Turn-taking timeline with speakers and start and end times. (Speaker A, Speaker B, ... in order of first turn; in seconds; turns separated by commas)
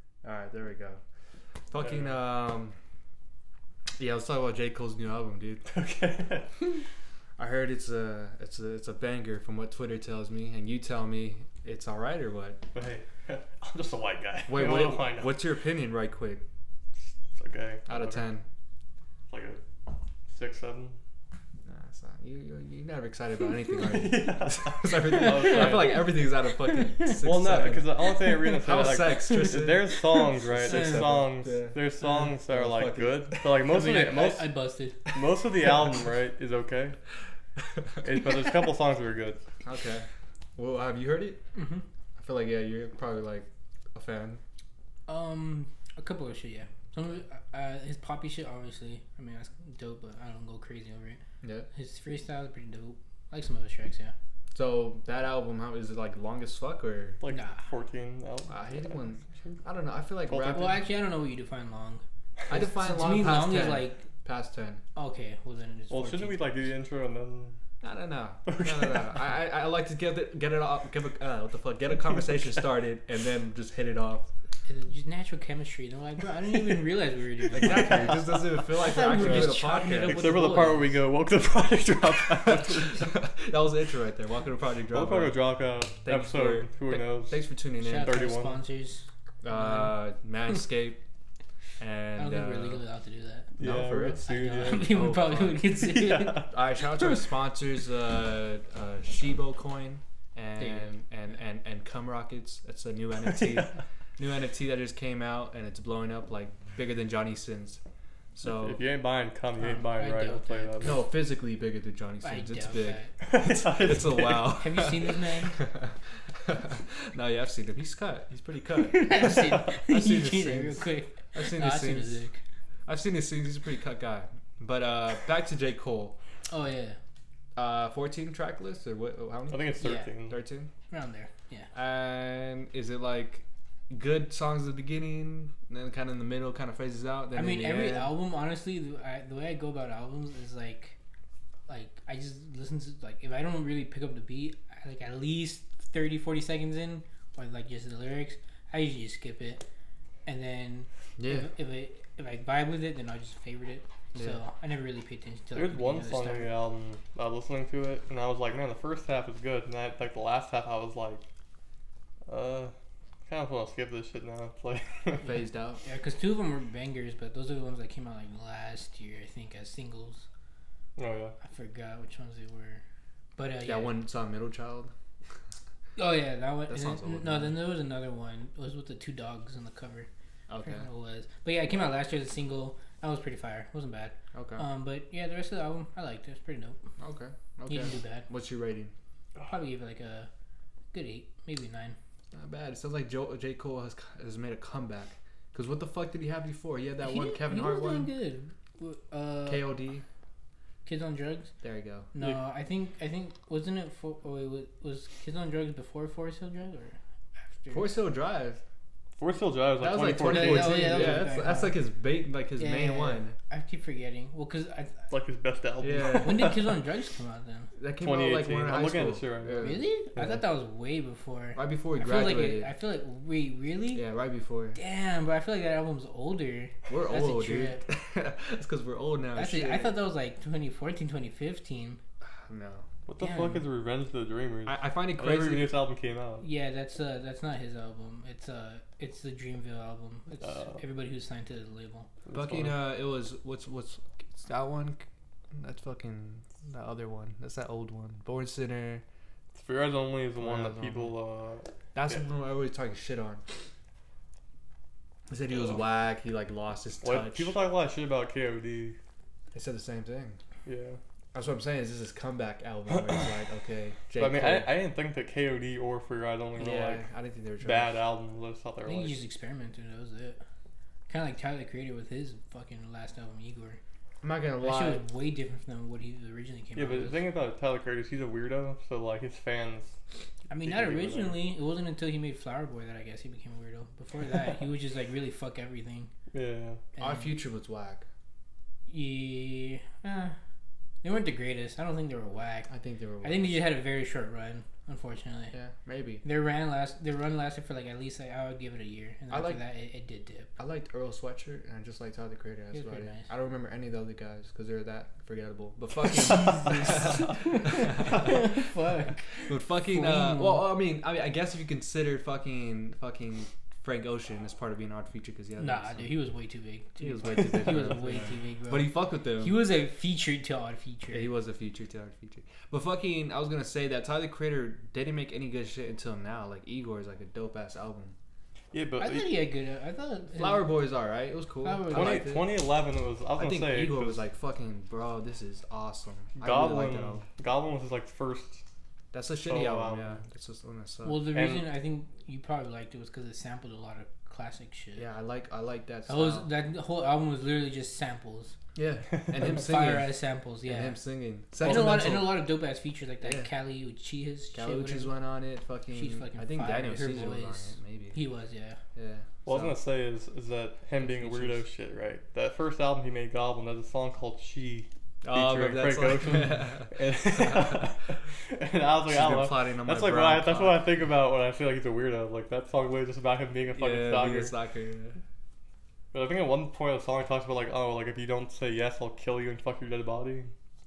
Speaker A: 0.2-1.0, Speaker A: 1.7-2.8, Speaker A: 4.0-5.7, Speaker B: 5.7-6.7, Speaker A: 7.4-12.7, Speaker B: 12.7-15.4, Speaker A: 14.5-16.4, Speaker B: 17.0-18.3, Speaker A: 17.9-18.4, Speaker B: 19.3-21.0, Speaker A: 21.7-27.9, Speaker B: 23.8-26.1, Speaker C: 25.1-27.1, Speaker B: 27.2-34.5, Speaker A: 28.4-33.5, Speaker C: 30.7-31.1, Speaker C: 33.7-35.1, Speaker B: 35.1-37.0, Speaker B: 38.0-39.4, Speaker A: 39.6-41.4, Speaker C: 41.5-41.8, Speaker A: 42.2-44.4, Speaker C: 45.1-51.2, Speaker A: 51.4-51.7, Speaker C: 51.7-54.1, Speaker A: 54.5-57.2, Speaker B: 57.2-59.6, Speaker C: 57.3-57.6, Speaker A: 58.5-60.8, Speaker B: 60.3-60.7, Speaker C: 60.5-64.1, Speaker A: 62.5-64.8, Speaker C: 65.0-66.5, Speaker B: 65.9-67.6, Speaker A: 67.8-74.3, Speaker B: 68.5-69.2, Speaker C: 74.7-80.9, Speaker B: 77.5-78.6, Speaker A: 77.5-80.9, Speaker B: 79.2-83.2, Speaker A: 82.5-85.4, Speaker B: 84.9-88.6, Speaker A: 86.0-88.2, Speaker C: 87.8-90.0, Speaker A: 89.4-91.0, Speaker A: 91.8-92.8, Speaker C: 92.2-93.5, Speaker B: 93.6-95.0, Speaker A: 93.6-95.7, Speaker C: 94.2-97.2, Speaker B: 95.8-96.5, Speaker A: 96.4-107.8, Speaker C: 100.6-101.0, Speaker A: 108.3-108.8, Speaker B: 108.5-111.0, Speaker C: 109.6-111.0, Speaker A: 110.8-122.2, Speaker C: 112.2-113.1, Speaker B: 113.2-114.6, Speaker C: 114.5-115.6, Speaker C: 118.8-122.4, Speaker A: 122.9-126.2, Speaker C: 126.5-127.0, Speaker A: 127.6-130.7, Speaker B: 129.5-130.4, Speaker C: 129.8-130.1, Speaker C: 130.9-131.7, Speaker A: 131.7-138.1, Speaker C: 137.3-141.0, Speaker C: 141.7-149.7, Speaker C: 150.3-156.5, Speaker A: 151.2-151.5, Speaker A: 154.1-154.4, Speaker B: 155.5-161.2, Speaker B: 162.3-162.7, Speaker B: 163.3-165.3, Speaker A: 165.2-165.8, Speaker C: 165.8-170.3, Speaker B: 171.0-171.3, Speaker C: 171.4-172.8, Speaker C: 173.4-173.9, Speaker A: 173.7-174.9, Speaker C: 176.0-180.1, Speaker A: 176.7-177.6, Speaker A: 180.5-180.9, Speaker C: 180.6-186.8, Speaker A: 184.3-184.7, Speaker A: 187.0-188.9, Speaker C: 187.7-188.3, Speaker C: 189.4-190.3, Speaker C: 190.9-192.0, Speaker A: 192.3-198.1, Speaker C: 197.0-199.7, Speaker A: 199.5-200.0, Speaker C: 200.9-201.5, Speaker A: 201.6-202.1, Speaker C: 202.1-208.0, Speaker A: 207.7-208.6, Speaker B: 209.2-211.2, Speaker A: 209.8-213.4, Speaker C: 210.2-211.8, Speaker C: 212.6-215.1, Speaker B: 215.1-216.7, Speaker A: 215.8-216.6, Speaker C: 216.2-217.7, Speaker A: 217.8-220.4, Speaker B: 218.0-219.8, Speaker C: 219.6-224.1, Speaker A: 221.6-222.7, Speaker A: 223.9-224.8, Speaker C: 224.8-227.8, Speaker A: 226.9-230.0, Speaker C: 229.3-232.0, Speaker A: 232.2-232.9, Speaker B: 233.1-236.4, Speaker C: 233.2-233.6, Speaker A: 234.7-235.7, Speaker C: 236.4-242.1, Speaker B: 240.4-240.8, Speaker B: 242.3-242.8, Speaker A: 242.3-249.0, Speaker B: 249.6-252.2, Speaker A: 250.4-251.1, Speaker A: 251.9-253.4, Speaker A: 255.3-257.5, Speaker B: 257.0-259.0, Speaker A: 259.5-260.4, Speaker B: 260.7-261.0, Speaker A: 261.3-264.7, Speaker B: 264.2-267.1, Speaker A: 266.6-268.0, Speaker B: 267.6-269.2, Speaker C: 268.9-270.4, Speaker C: 271.1-273.8, Speaker A: 274.2-275.0, Speaker C: 274.6-277.2, Speaker B: 276.8-280.0, Speaker C: 280.5-286.1, Speaker B: 280.6-281.4, Speaker B: 286.3-286.8, Speaker C: 287.0-287.4, Speaker A: 287.0-288.1, Speaker C: 288.9-290.4, Speaker C: 291.0-292.7, Speaker A: 292.7-293.6, Speaker C: 293.2-295.5, Speaker A: 295.5-296.2, Speaker C: 296.2-300.5, Speaker A: 299.3-299.6, Speaker A: 300.6-308.7, Speaker C: 302.7-303.3, Speaker C: 306.4-310.7, Speaker A: 309.4-316.1, Speaker C: 315.6-321.3, Speaker A: 317.0-319.6, Speaker A: 321.1-328.1, Speaker B: 328.7-329.3, Speaker C: 329.0-330.7, Speaker A: 330.4-332.4, Speaker C: 331.6-332.3, Speaker B: 331.9-334.2, Speaker A: 333.4-337.2, Speaker B: 336.4-338.6, Speaker A: 339.1-341.3, Speaker B: 339.5-340.2, Speaker C: 341.0-345.1, Speaker B: 341.3-341.7, Speaker A: 345.0-346.5, Speaker C: 346.1-348.6, Speaker A: 348.8-352.4, Speaker C: 349.4-351.0, Speaker C: 351.6-355.1, Speaker B: 351.6-352.1, Speaker A: 353.2-353.5, Speaker A: 354.5-358.2, Speaker C: 355.9-358.8, Speaker A: 358.9-359.8, Speaker B: 359.4-374.5, Speaker A: 361.0-361.6, Speaker A: 365.2-367.9, Speaker A: 369.1-371.1, Speaker A: 373.7-375.2, Speaker B: 376.1-380.5